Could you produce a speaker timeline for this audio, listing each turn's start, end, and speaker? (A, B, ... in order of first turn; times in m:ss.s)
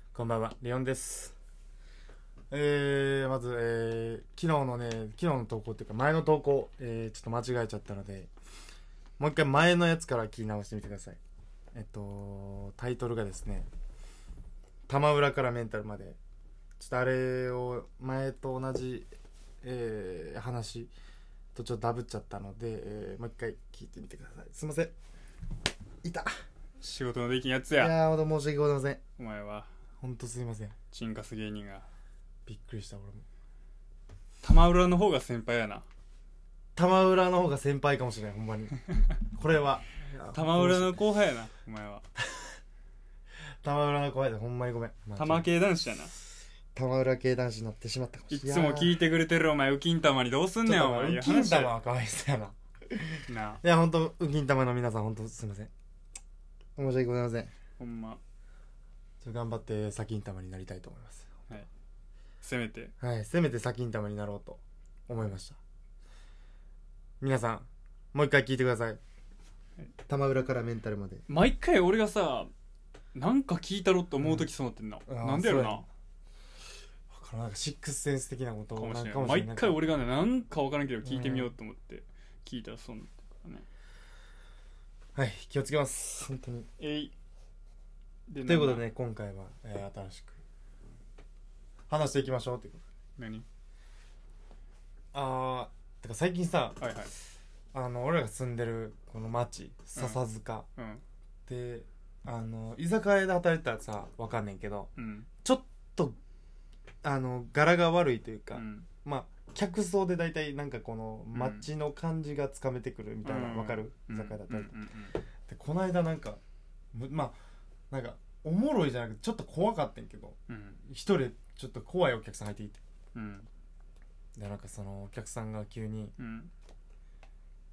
0:00.1-0:01.3 A
0:02.5-0:08.3 A
0:09.2-0:11.2 A
0:11.7-0:13.7 A
0:14.9-0:16.2 A
0:16.8-0:19.0 A
0:19.6-0:20.9 A
0:21.5-0:24.9 A
0:26.0-0:26.3 A
0:26.8-0:28.0 B
0:27.8-0:29.0 A
0:29.2-0:29.7 B
0:30.0-0:30.7 A
0:30.9-0:31.8 B
0:32.4-0:33.2 A
0:34.4-0:35.8 B
0:36.7-0:38.8 A
0:39.3-0:41.0 A
0:40.3-0:42.0 B
0:42.2-0:42.5 A
0:43.6-0:45.5 A
0:45.1-0:46.1 B
0:46.7-0:49.0 A
0:48.3-0:51.7 B
0:50.6-0:55.7 A
0:53.3-0:53.6 B
0:56.8-0:57.5 A
0:57.8-0:58.2 B
0:59.2-1:01.3 A
1:02.4-1:02.9 B
1:03.0-1:05.6 A
1:07.2-1:09.0 A
1:10.1-1:11.2 A
1:11.3-1:12.5 B
1:13.1-1:15.8 B
1:15.1-1:15.8 A
1:17.1-1:19.8 A
1:18.8-1:23.6 B
1:21.0-1:21.5 A
1:25.1-1:26.7 A
1:26.8-1:27.1 B
1:28.3-1:28.8 B
1:28.4-1:30.4 A
1:31.9-1:32.8 A
1:33.2-1:33.4 B
1:35.1-1:36.8 A
1:36.8-1:37.1 B
1:37.7-1:40.6 A
1:40.8-1:41.0 B
1:41.5-1:44.9 A
1:45.0-1:45.3 B
1:45.4-1:46.2 A
1:47.0-1:54.8 A
1:48.5-1:48.8 B
1:51.3-1:51.7 B
1:53.2-1:55.2 B
1:55.5-1:56.4 A
1:56.9-1:57.4 A
1:57.9-2:02.8 A
2:00.5-2:00.8 B
2:03.1-2:03.5 B
2:04.4-2:06.1 A
2:06.2-2:06.5 B